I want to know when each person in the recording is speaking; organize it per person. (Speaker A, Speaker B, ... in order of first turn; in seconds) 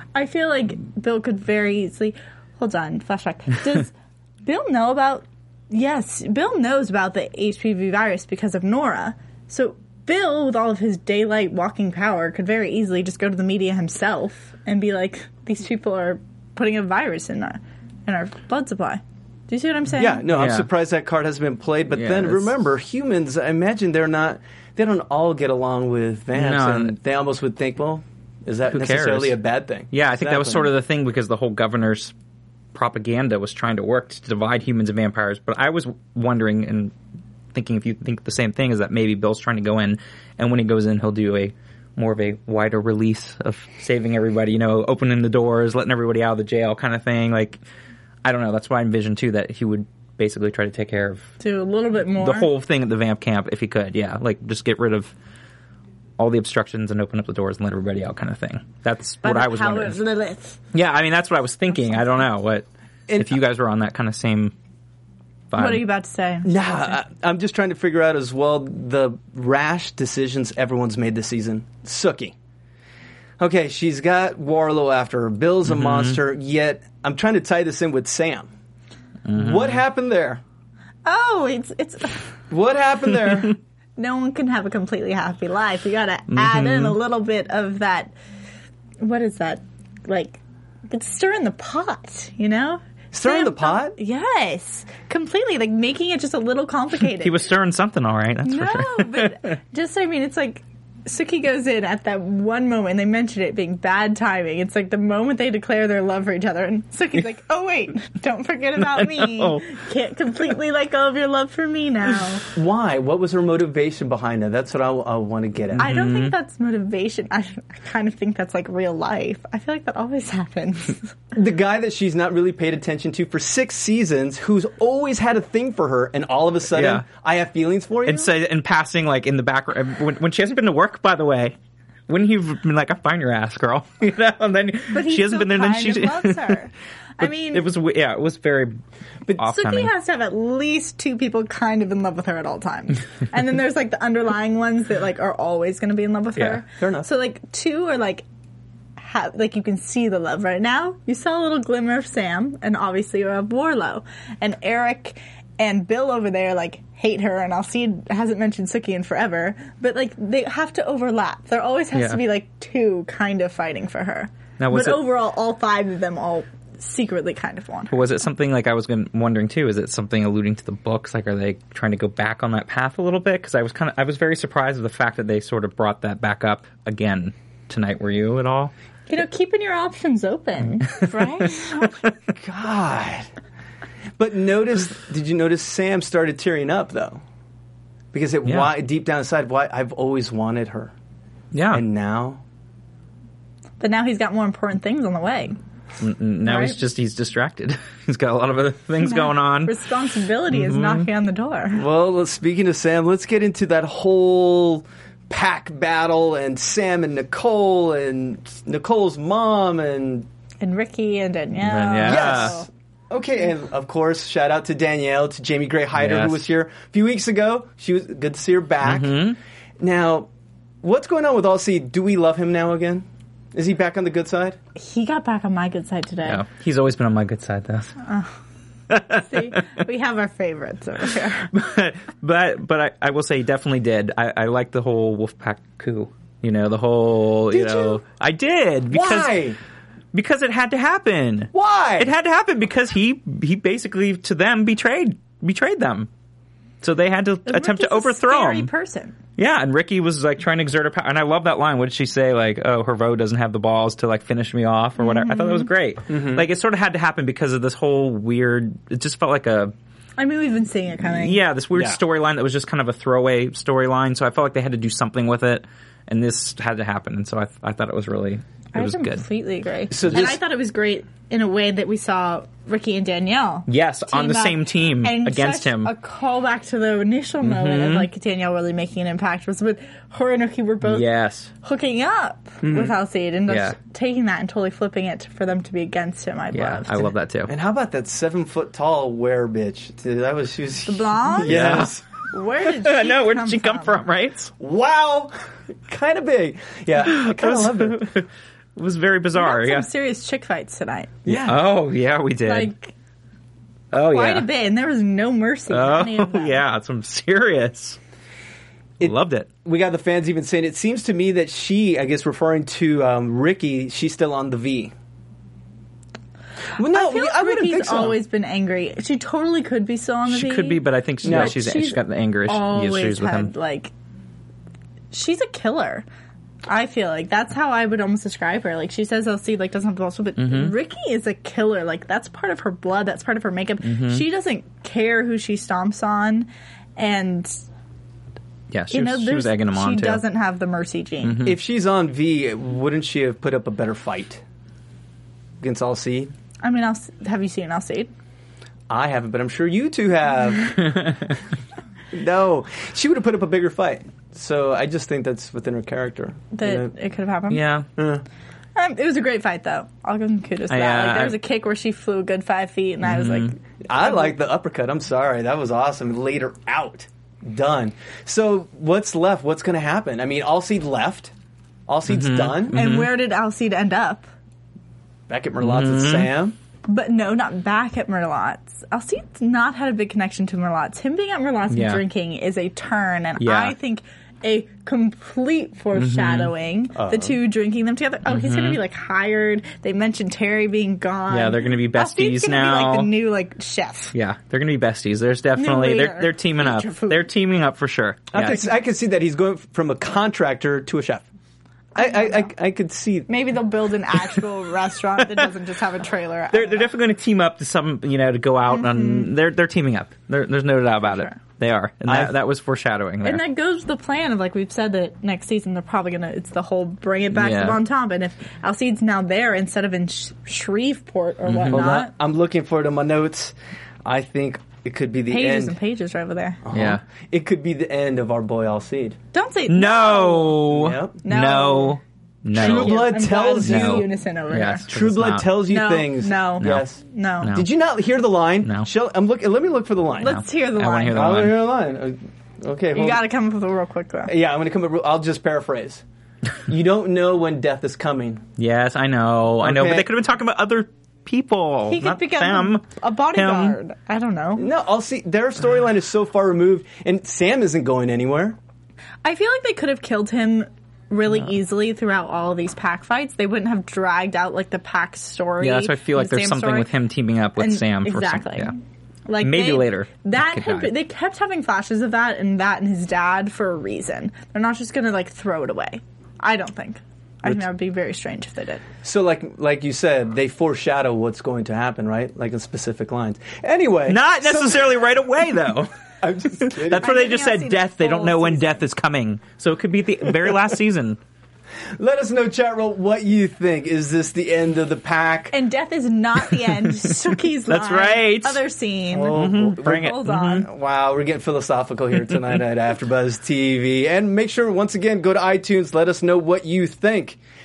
Speaker A: 0.1-3.9, 4.4-20.2, 51.4-52.5, 59.2-60.6, 65.5-67.0, 81.0-82.3, 84.0-88.1, 89.0-97.5, 98.4-112.5, 115.8-121.1, 134.9-137.6, 139.3-148.2, 149.0-168.0, 179.1-182.0, 193.8-195.6, 196.4-196.8, 199.0-201.8, 210.6-212.7, 224.8-226.4, 228.0-228.3, 229.1-231.5, 247.4-249.2, 255.0-255.7, 260.2-261.4, 268.7-281.1, 281.6-287.1, 290.9-294.0, 299.3-301.2, 302.4-302.9, 304.0-306.6, 316.8-323.9, 325.1-326.1, 326.7-337.5, 338.9-341.4, 346.6-348.1, 356.5-357.6, 358.7-364.3, 372.7-374.3, 376.9-394.1, 395.6-397.2, 401.9-402.5, 403.3-406.9, 408.7-409.3, 411.1-411.4, 413.2-422.1, 425.3-426.6, 429.3-430.7, 431.2-432.0, 432.5-434.8, 435.7-437.5, 440.2-441.5, 442.9-444.3, 451.9-454.7, 459.2-466.9, 467.6-468.7, 469.3-478.8, 487.0-488.8, 495.5-500.6
Speaker B: 19.9-30.7, 63.1-63.4, 66.4-72.3, 73.4-78.5, 79.3-80.4, 82.5-83.6, 93.1-94.0, 112.5-115.9, 121.3-128.3, 146.7-147.1, 182.3-183.3, 184.2-187.2, 188.1-190.9, 191.7-192.4, 201.7-210.3, 212.0-219.2, 219.8-220.3, 220.8-224.6, 237.5-238.0, 238.9-239.6, 241.5-242.1, 256.1-256.4, 269.9-270.4, 282.6-282.9, 287.5-292.0, 294.6-295.3, 295.9-298.1, 301.2-301.7, 309.0-314.9, 316.8-318.2, 321.2-321.6, 341.4-344.4, 345.6-346.3, 348.9-351.2, 352.1-356.9, 358.0-358.2, 363.9-371.3, 371.9-372.8, 375.3-376.6, 386.9-387.4, 398.3-401.2, 401.9-403.3, 412.1-412.3, 421.7-425.8, 426.6-429.2, 430.7-431.2, 432.5-434.1, 434.9-437.0, 437.5-440.4, 441.1-443.3, 444.3-446.0, 446.7-448.4, 449.6-450.1, 454.6-458.6, 479.0-484.9, 486.2-487.2, 492.0-495.5, 499.1-507.4
Speaker C: 20.3-20.7, 21.9-22.5, 26.3-26.9, 28.7-29.3, 29.9-32.1, 32.7-36.9, 37.5-47.6, 48.2-51.3, 52.2-55.1, 56.2-60.0, 60.7-64.5, 65.5-65.8, 75.7-76.2, 79.3-79.8, 86.3-87.0, 97.2-99.5, 108.8-109.6, 115.7-116.3, 126.7-127.0, 128.1-131.5, 132.1-136.6, 137.2-138.8, 139.3-139.9, 161.9-162.2, 164.6-165.0, 167.9-178.7, 191.5-191.8, 196.0-199.8, 200.5-201.1, 211.6-212.6, 215.9-216.4, 218.8-219.4, 226.2-228.0, 228.9-229.2, 231.5-239.4, 240.1-246.1, 246.8-248.7, 249.4-259.7, 261.2-269.2, 273.7-275.9, 277.4-278.1, 280.8-281.5, 283.5-283.8, 286.5-287.5, 291.4-292.0, 292.6-294.5, 297.1-299.9, 301.3-302.7, 303.9-304.5, 305.7-308.0, 309.0-309.5, 320.3-323.5, 330.4-330.7, 333.8-334.2, 338.7-340.2, 341.2-341.6, 357.5-357.9, 360.7-361.4, 363.0-363.5, 372.1-373.1, 375.6-376.3, 381.7-382.0, 383.4-383.7, 385.9-386.5, 388.3-388.8, 391.3-393.1, 394.1-398.6, 406.5-413.4, 417.3-417.8, 421.5-421.9, 426.7-427.0, 429.7-433.1, 433.6-435.6, 436.6-436.9, 437.4-437.7, 438.6-438.9, 440.3-441.6, 448.6-453.8, 465.6-468.7, 469.4-470.9, 484.1-485.9, 486.6-491.2, 497.7-498.6, 499.3-500.6